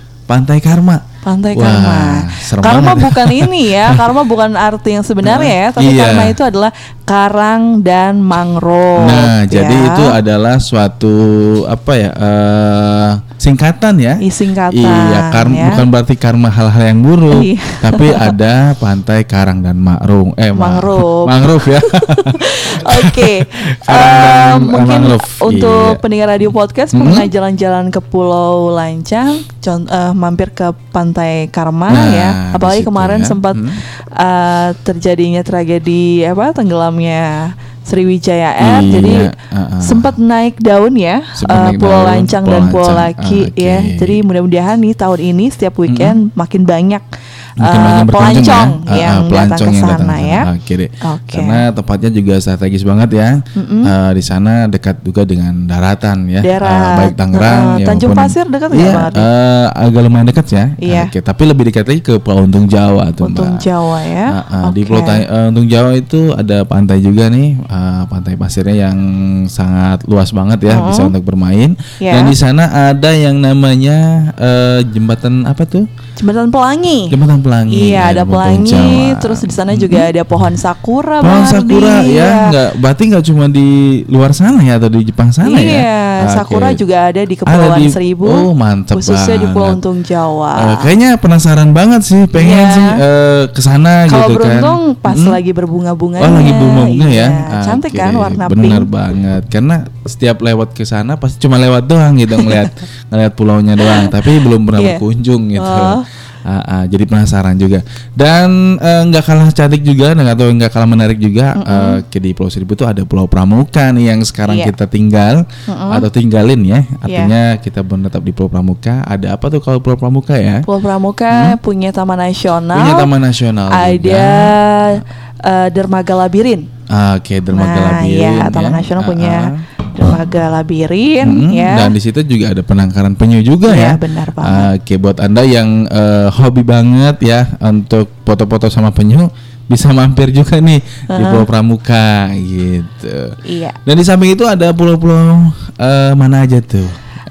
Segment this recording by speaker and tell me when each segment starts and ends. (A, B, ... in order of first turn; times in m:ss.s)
0:00.3-0:04.0 A
0:01.2-0:10.2 B
0:05.2-0:06.4 A
0:09.0-0:26.0 A
0:14.2-0:15.8 B
0:17.3-0:18.4 B
0:20.6-0:39.3 B
0:26.9-0:27.3 A
0:31.9-0:33.8 A
0:38.6-0:40.1 A
0:39.8-0:47.0 B
0:41.4-0:44.2 A
0:45.9-0:46.2 A
0:47.6-1:03.7 A
0:47.6-0:50.5 B
0:51.0-0:51.6 B
0:53.6-0:53.9 B
0:56.4-0:59.3 B
1:00.8-1:01.1 B
1:03.2-1:05.2 B
1:04.3-1:15.9 A
1:10.7-1:11.1 B
1:12.0-1:12.4 B
1:16.2-1:17.2 B
1:17.1-1:20.1 A
1:17.7-1:22.5 B
1:21.2-1:26.8 A
1:25.4-1:30.9 B
1:27.5-1:29.8 A
1:30.6-1:35.4 A
1:32.4-1:33.0 B
1:34.1-1:38.9 B
1:36.2-2:00.6 A
1:43.8-1:44.2 B
1:44.8-1:45.0 B
1:45.6-1:46.0 B
1:51.6-1:52.0 B
1:54.5-1:54.7 B
1:55.7-1:56.0 B
1:57.1-1:57.3 B
2:00.7-2:03.1 B
2:01.3-2:01.6 A
2:02.7-2:04.6 A
2:03.7-2:06.7 B
2:06.9-2:09.6 A
2:07.5-2:11.9 B
2:11.2-2:27.0 A
2:13.7-2:14.7 B
2:21.1-2:21.4 B
2:23.4-2:23.8 B